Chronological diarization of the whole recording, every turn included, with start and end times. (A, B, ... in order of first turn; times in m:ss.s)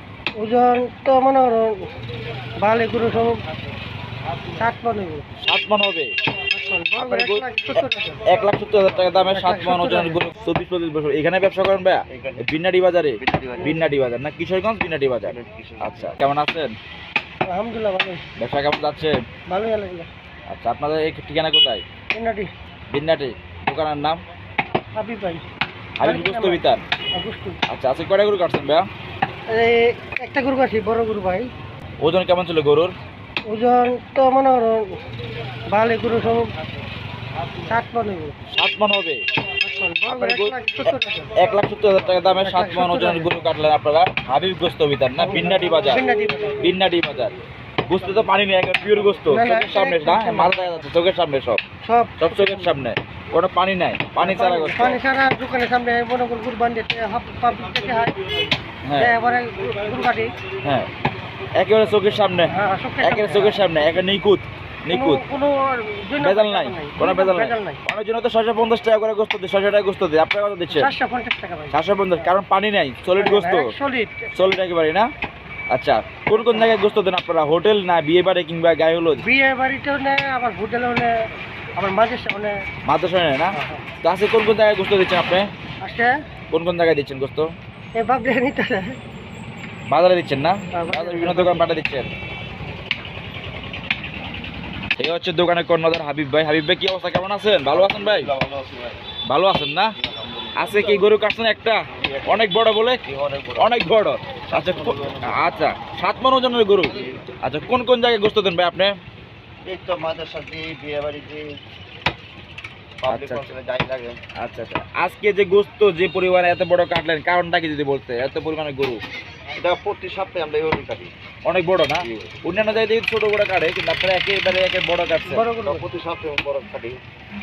0:00.4-0:01.9 A
0:02.6-0:03.4 A
0:04.5-0:05.3 A
0:05.4-0:06.1 B
0:06.5-0:08.5 A
0:07.0-0:16.7 B
0:09.0-0:10.2 A
0:12.1-0:12.5 C
0:13.2-0:13.8 C
0:15.2-0:16.2 C
0:17.5-0:18.2 A
0:18.4-0:19.2 B
0:19.5-0:20.1 A
0:20.5-0:21.8 B
0:22.1-0:22.5 A
0:22.9-0:24.2 B
0:24.9-0:25.4 A
0:26.0-0:26.8 B
0:26.0-0:27.6 A
0:27.7-0:28.9 B
0:29.5-0:31.5 A
0:32.0-0:32.9 B
0:33.5-0:35.0 A
0:35.7-0:36.5 A
0:37.6-0:38.4 A
0:38.5-0:39.2 B
0:39.6-0:41.6 A
0:40.1-0:46.0 B
0:42.3-0:43.4 A
0:45.2-0:46.7 A
0:46.6-0:47.3 B
0:47.8-0:51.6 B
0:49.3-0:50.6 A
0:51.8-0:52.7 A
0:52.2-0:55.0 B
0:54.2-1:00.3 A
0:58.9-0:59.2 B
1:00.6-1:00.9 B
1:01.6-1:05.2 B
1:02.5-1:03.6 A
1:04.9-1:07.8 A
1:06.2-1:10.9 B
1:10.7-1:12.2 A
1:11.7-1:13.7 B
1:13.2-1:14.3 A
1:14.3-1:15.1 B
1:15.7-1:19.2 B
1:19.2-1:21.1 A
1:21.8-1:22.5 A
1:22.9-1:25.5 B
1:23.5-1:23.8 A
1:25.8-1:26.1 A
1:26.5-1:27.5 B
1:28.0-1:29.0 A
1:29.9-1:32.1 B
1:30.7-1:31.7 A
1:35.0-1:38.3 B
1:37.7-1:39.0 C
1:39.3-1:39.9 B
1:40.0-1:41.1 C
1:40.6-1:43.0 B
1:41.9-1:42.5 C
1:43.0-1:43.8 C
1:43.6-1:48.9 B
1:44.5-1:45.8 C
1:46.9-1:47.2 C
1:49.7-1:51.5 C
1:53.0-1:54.2 C
1:53.1-1:53.5 B
1:54.4-1:59.0 B
1:59.6-2:01.1 C
2:01.4-2:05.4 B
2:02.0-2:02.4 C
2:05.3-2:05.8 A
2:05.6-2:07.0 C